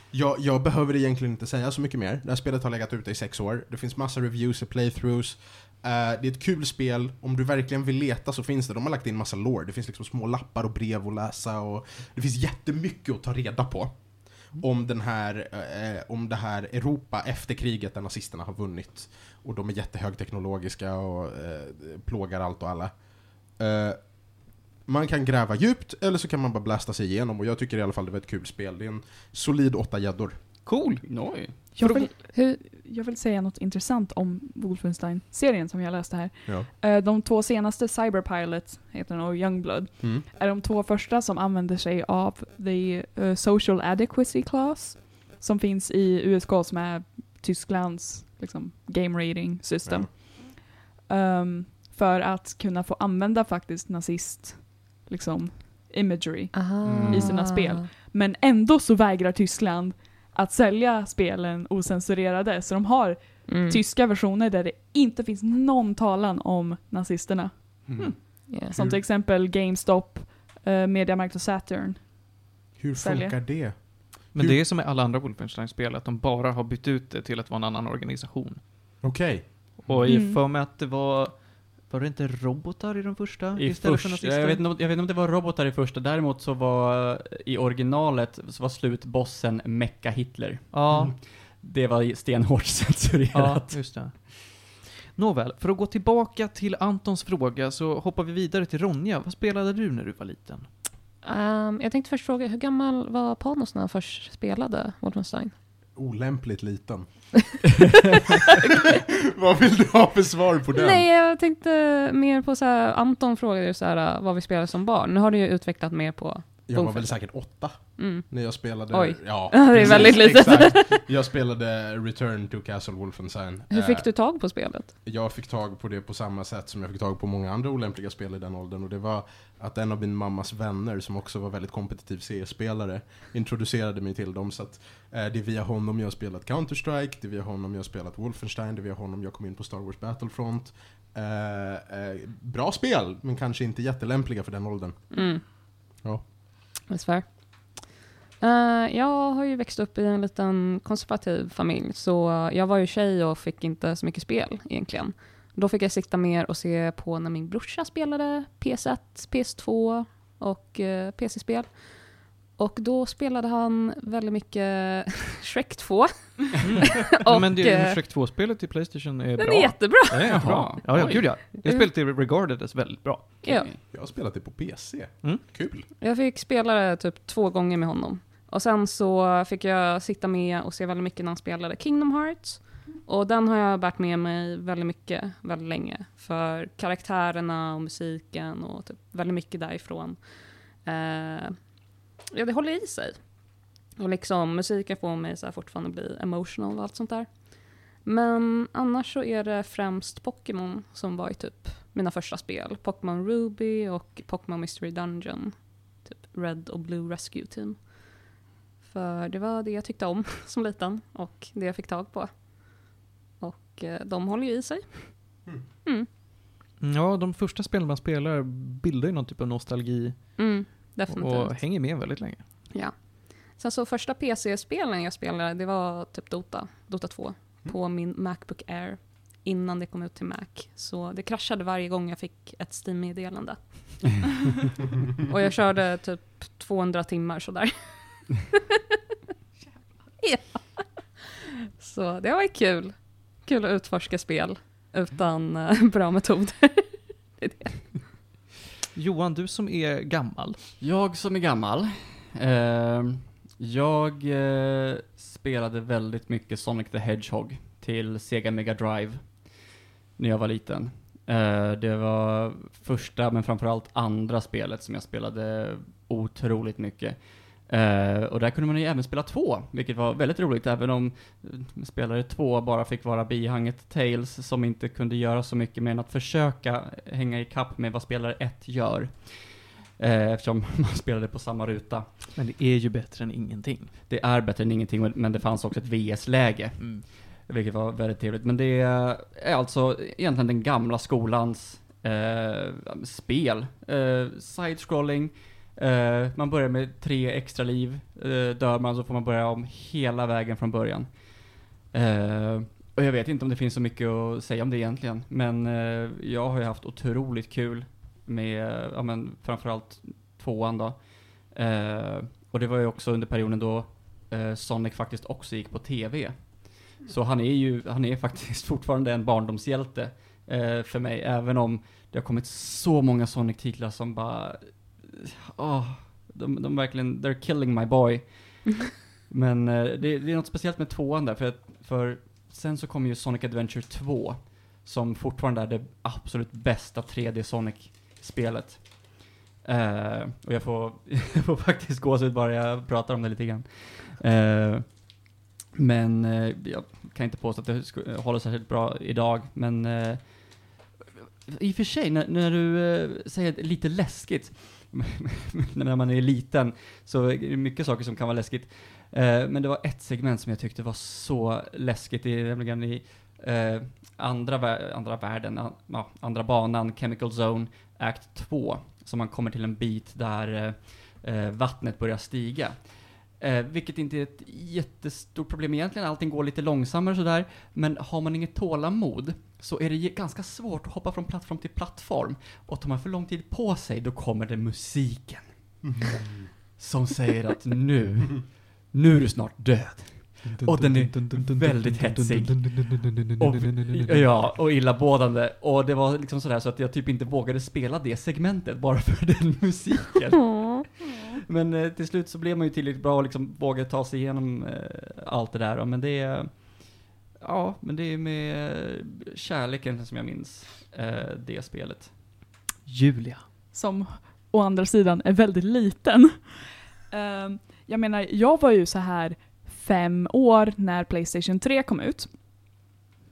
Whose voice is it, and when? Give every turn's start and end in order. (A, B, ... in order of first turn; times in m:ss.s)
0:00.1-0:30.6 A
0:30.6-0:31.0 B
0:31.0-0:31.7 C
0:31.7-1:13.4 D
0:40.0-0:40.2 A
0:49.8-0:50.1 A
0:56.5-0:57.8 E
0:56.8-0:57.5 C
1:03.5-1:03.8 E
1:07.9-1:08.2 C
1:08.7-1:09.0 A
1:12.8-1:14.6 A
1:14.3-1:18.6 B
1:19.0-1:19.9 A
1:19.8-1:24.6 B
1:20.0-1:20.4 D
1:23.6-1:34.1 C
1:30.7-1:31.1 B
1:33.3-1:40.7 B
1:41.2-1:45.5 E
1:45.9-1:47.6 A
1:49.3-1:51.0 A
1:50.7-2:01.0 E
1:56.7-2:04.1 A
2:03.7-2:04.9 E
2:05.0-2:26.3 A
2:25.1-2:25.4 E
2:26.9-2:48.0 E
2:46.6-2:53.4 B
2:49.4-2:50.6 E
2:50.2-2:51.4 C
2:53.4-2:53.7 E
2:53.4-2:53.8 C
2:53.8-2:55.9 A
2:56.0-3:28.3 E
3:28.8-3:36.1 E
3:36.8-3:42.4 B
3:40.4-3:42.1 E
3:42.7-3:54.0 E
3:55.2-3:58.5 E
4:00.2-4:01.1 E
4:01.8-4:07.9 E
4:08.9-4:10.6 B
4:10.8-4:19.6 C
4:20.2-4:42.1 C
4:42.3-4:43.9 B
4:44.1-5:28.6 C
4:46.8-4:47.1 B
5:29.3-5:45.2 C
5:45.7-5:50.7 C
5:51.4-6:52.4 C
6:30.4-6:34.4 B
6:40.4-6:40.8 E
6:52.8-6:53.5 B
6:53.7-7:02.7 D